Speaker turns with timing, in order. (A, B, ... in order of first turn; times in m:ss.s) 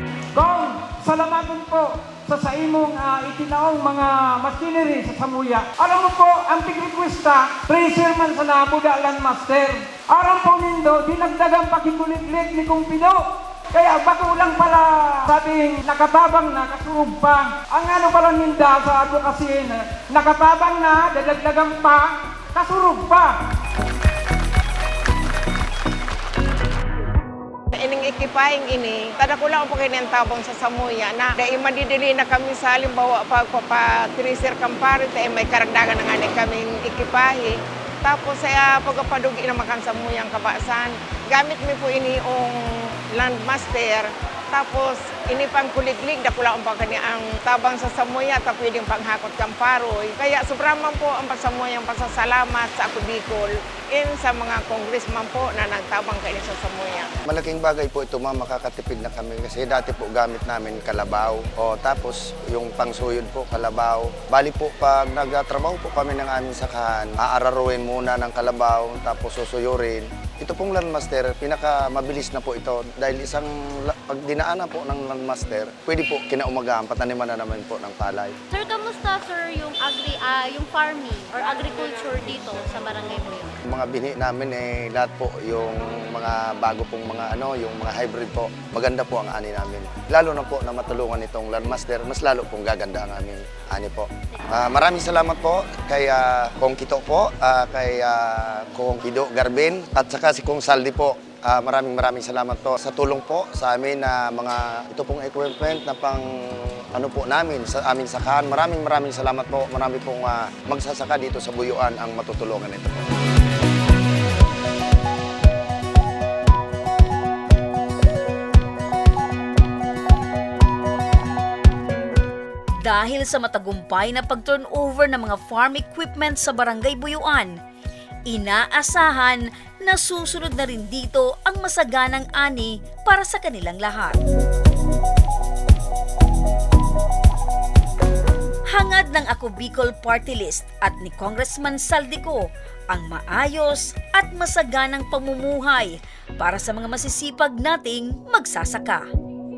0:00.3-0:13.2 A
0:13.7-0:23.3 A
0:27.7-0:57.1 B
0:57.2-1:18.4 C
1:18.5-1:23.6 D
1:23.7-1:53.0 C
2:02.8-2:07.6 E
2:08.3-2:14.2 E
2:18.7-2:29.1 E